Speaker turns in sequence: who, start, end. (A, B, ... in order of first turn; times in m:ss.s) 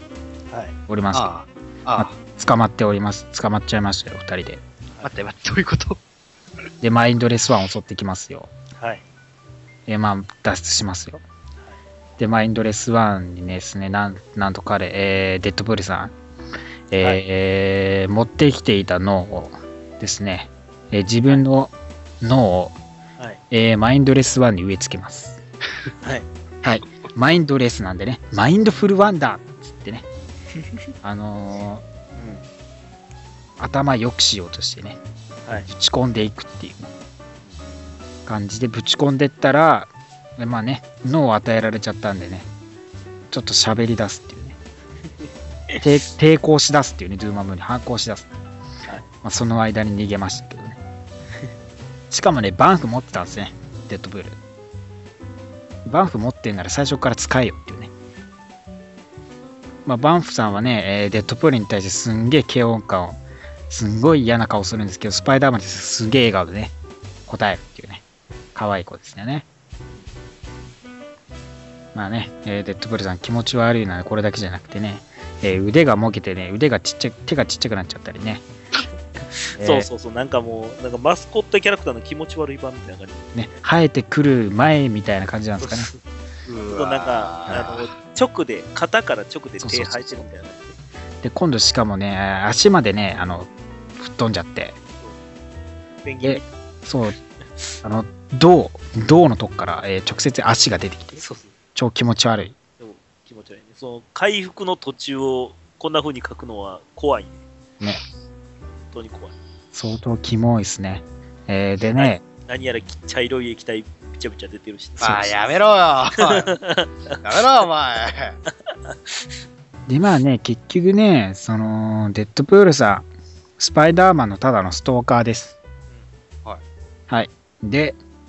0:00.5-0:00.8 A
0:00.9-0:01.3 B
0:01.1-0:02.1 C
0:02.0-0:04.6 B
0:05.0-0:06.0 C
0:06.8-0:08.5 B
0:08.8-0:09.0 A
0:09.9-0:11.2 B
0:12.2-0:16.1 B
0:16.9-0:22.8 B
0:23.5-0:25.4 B
0:26.6-0:30.0 B
0:31.0-0:31.8 B
0:32.2-0:32.4 A
0:33.6-0:35.0 B
0:35.5-0:36.9 B
0:38.2-0:42.5 B
0:43.3-0:44.6 B
0:45.8-0:48.3 B
0:49.2-0:50.8 B
0:52.1-0:54.4 B
0:55.8-0:57.9 B
0:59.8-1:03.2 B
1:03.7-1:06.7 B
1:07.3-1:08.0 B
1:08.5-1:09.4 B
1:11.9-1:18.4 B
1:19.4-1:23.6 A
1:19.6-1:19.9 B
1:23.3-1:25.9 B
1:25.6-1:26.0 A
1:26.4-1:27.9 C
1:26.7-1:30.8 A
1:27.5-1:27.7 B
1:29.6-1:30.2 B
1:31.2-1:34.8 B
1:36.0-1:36.4 A
1:36.2-1:37.2 B
1:37.8-1:41.2 B
1:41.2-1:41.5 A
1:41.7-1:42.6 B
1:42.8-1:47.4 A
1:48.9-1:49.3 A
1:49.7-1:52.2 B
1:51.9-1:55.3 A
1:55.0-1:56.5 C
1:55.0-1:55.3 B
1:56.2-1:57.2 A
1:57.2-1:58.4 C
1:59.9-2:03.1 B
2:03.6-2:05.6 B
2:07.1-2:08.0 B